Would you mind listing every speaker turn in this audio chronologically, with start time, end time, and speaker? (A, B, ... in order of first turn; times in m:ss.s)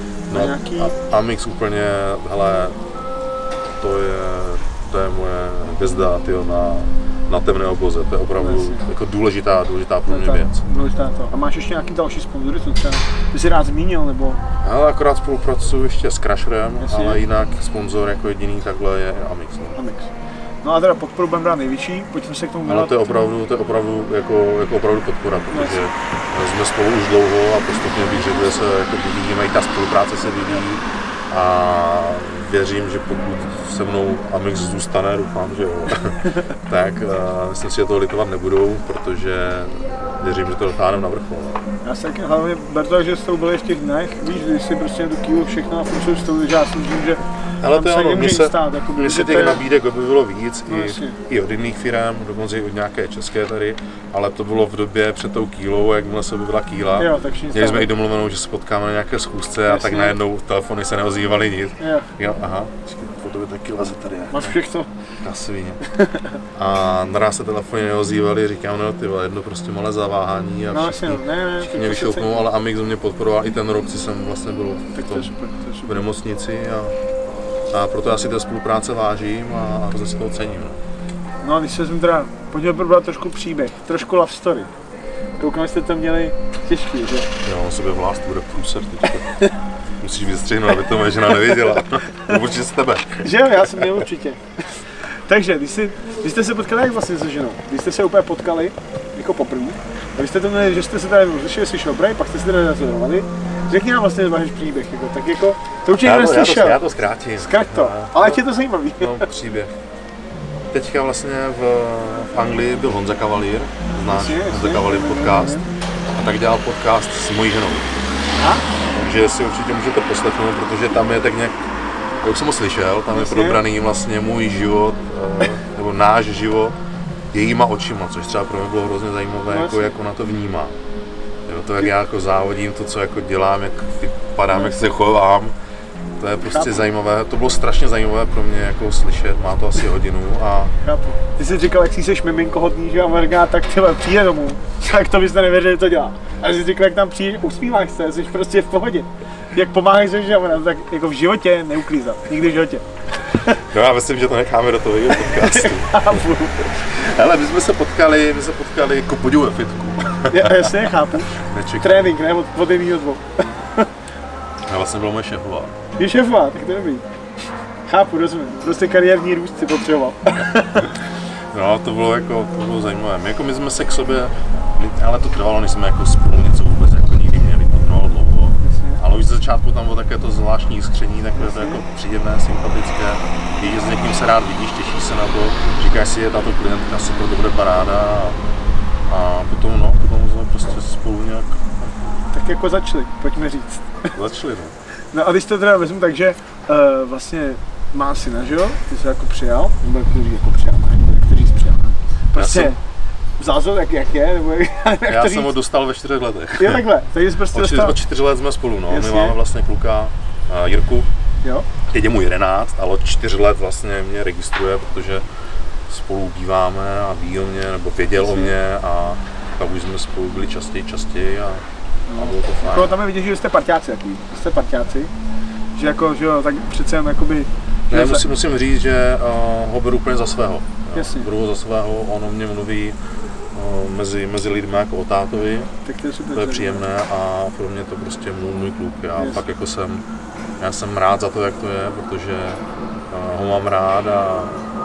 0:00.3-0:02.8 A
0:00.3-0:00.9 B
0:03.8-0:10.6 A
0:08.4-0:08.8 B
0:10.1-0:14.4 B
0:14.6-0:19.8 A
0:16.8-0:17.2 B
0:19.8-0:20.1 B
0:20.6-0:23.1 B
0:22.6-0:41.6 A
0:25.5-0:25.8 B
0:41.8-0:49.6 B
0:47.6-1:04.5 A
0:50.7-0:51.2 B
0:57.0-0:57.9 B
0:59.7-1:00.2 B
1:01.8-1:02.1 B
1:04.3-1:04.9 B
1:05.2-1:05.8 A
1:05.8-1:06.4 B
1:06.5-1:15.3 A
1:10.7-1:12.5 B
1:14.9-1:15.9 B
1:15.9-1:16.9 A
1:17.7-1:20.8 A
1:21.4-1:24.7 B
1:25.4-1:27.3 B
1:27.4-1:29.4 A
1:30.0-1:34.0 A
1:33.2-1:46.8 B
1:46.0-1:48.4 A
1:47.4-1:49.3 B
1:49.0-1:49.7 A
1:50.7-1:55.6 A
1:54.1-1:55.7 B
1:56.1-1:58.0 A
1:58.4-1:58.7 B
1:58.9-2:01.6 A
2:02.2-2:06.8 A
2:03.1-2:03.6 B
2:07.3-2:10.8 A
2:09.5-2:09.9 B
2:11.5-2:15.6 A
2:16.2-2:20.7 A
2:16.5-2:16.8 B
2:20.8-2:32.8 B
2:33.6-2:40.8 A
2:35.2-2:36.6 B
2:40.3-2:43.9 B
2:41.3-2:42.1 A
2:44.7-2:45.7 A
2:46.0-2:47.0 B
2:47.8-2:50.9 B
2:51.5-3:08.4 A
2:58.6-2:59.0 B
3:01.4-3:01.8 B
3:09.1-3:12.2 A
3:12.3-3:14.1 B
3:14.1-3:14.7 A
3:15.1-3:22.8 B
3:22.3-3:22.8 A
3:23.4-3:25.5 B
3:25.1-3:26.8 A
3:26.6-3:28.0 B
3:27.5-3:31.1 A
3:28.9-3:29.4 B
3:31.9-3:35.2 A
3:35.9-3:41.6 A
3:38.2-3:38.5 B
3:42.1-3:45.1 B
3:42.2-3:43.0 A
3:45.8-3:48.2 B
3:47.9-3:53.0 A
3:50.9-3:51.3 B
3:53.5-3:55.7 A
3:55.8-3:56.8 B
3:56.3-4:00.0 A
4:00.6-4:04.6 A